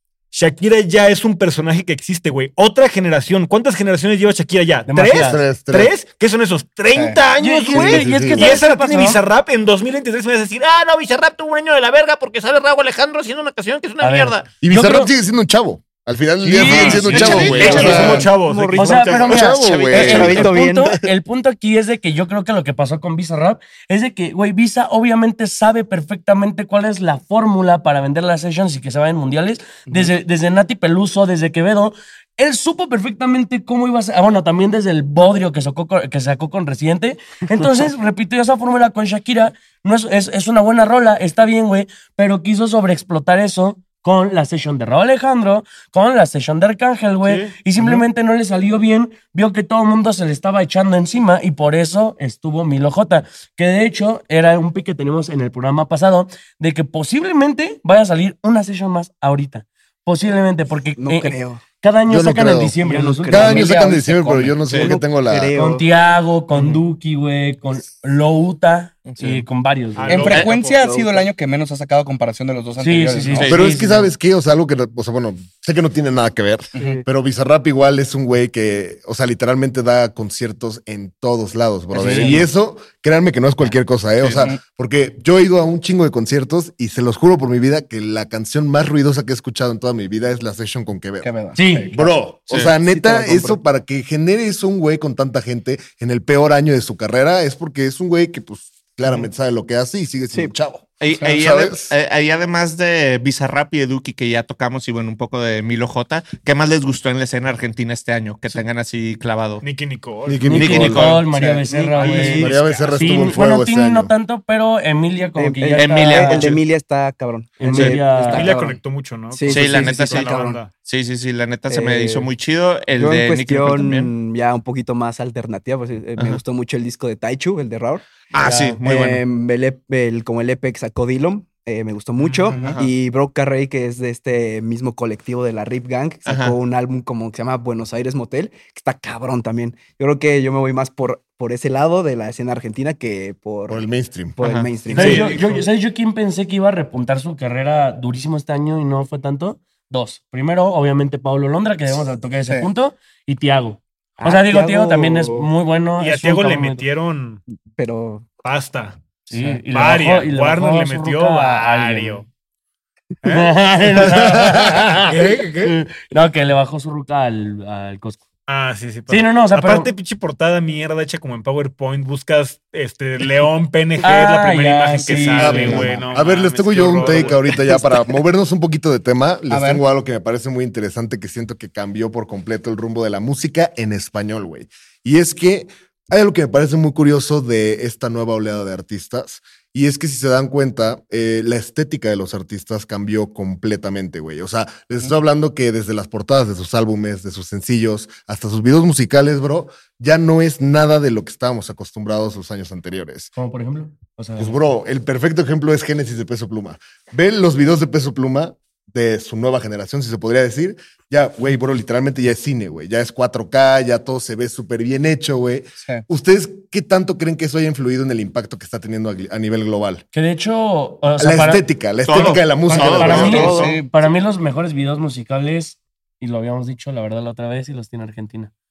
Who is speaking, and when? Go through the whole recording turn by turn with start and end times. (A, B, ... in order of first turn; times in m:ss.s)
0:00.3-0:14.4 A
0:04.9-0:05.4 B
0:05.1-0:05.9 C
0:06.9-0:07.2 D
0:07.4-0:09.2 B
0:07.7-0:08.6 C
0:14.0-0:15.1 B
0:14.6-0:18.3 C
0:16.4-0:18.2 B
0:16.6-0:19.3 A
0:17.1-0:18.1 E
0:17.2-0:19.4 F
0:18.7-1:03.9 B
0:19.2-0:20.5 C
0:19.4-0:20.5 E
0:19.9-0:21.0 F
0:47.2-0:47.6 A
1:01.0-1:01.6 F
1:02.1-1:02.8 C
1:02.8-1:05.8 F
1:03.3-1:05.5 C
1:04.6-1:04.9 E
1:05.5-1:10.2 B
1:09.9-1:10.8 A
1:10.1-1:13.5 D
1:10.3-1:11.2 F
1:12.8-1:14.1 B
1:13.3-1:13.6 E
1:13.4-1:31.3 C
1:16.7-1:17.0 D
1:16.7-1:17.0 F
1:21.9-1:22.4 B
1:22.1-1:22.4 D
1:24.3-1:24.6 D
1:31.2-1:32.0 D
1:31.5-1:31.9 B
1:31.9-1:41.9 C
1:32.5-1:32.7 E
1:32.8-1:33.6 F
1:41.0-1:49.6 E
1:49.6-1:50.5 A
1:50.2-1:51.1 C
1:50.4-1:56.5 B
1:50.5-1:51.3 E
1:51.3-1:52.3 D
1:52.0-1:53.4 A
1:52.0-1:52.5 F
1:52.4-1:54.1 C
1:55.4-1:58.8 F
1:55.8-1:56.6 E
1:57.6-1:58.5 B
1:58.1-2:00.7 A
1:59.3-2:00.6 F
1:59.5-2:04.1 E
2:01.7-2:02.3 F
2:02.9-2:25.4 F
2:08.3-2:09.2 E
2:12.2-2:12.5 A
2:12.5-2:12.8 D
2:12.5-2:12.9 E
2:16.2-2:16.6 E
2:23.7-2:24.4 C
2:24.4-2:24.7 E
2:24.9-2:25.6 A
2:24.9-2:36.8 B
2:34.2-2:35.5 F
2:36.0-2:37.4 A
2:37.7-2:38.3 F
2:38.4-2:39.0 A
2:39.3-2:42.2 B
2:39.3-2:39.6 D
2:39.7-2:42.2 A
2:43.2-2:44.2 A
2:43.2-2:48.2 B
2:44.0-2:44.8 C
2:45.0-2:45.8 A
2:48.5-2:57.5 A
2:49.1-2:49.9 B
2:54.0-2:55.9 B
2:55.2-2:56.0 D
2:55.4-3:23.3 C
2:57.0-2:57.7 D
2:59.5-2:59.8 D
3:23.3-3:24.6 B
3:24.4-3:40.0 C
3:35.8-3:36.0 D
3:40.1-3:41.6 B
3:41.2-3:43.7 C
3:42.0-3:43.7 E
3:42.7-3:43.9 D
3:42.8-3:48.5 B
3:43.2-3:43.7 F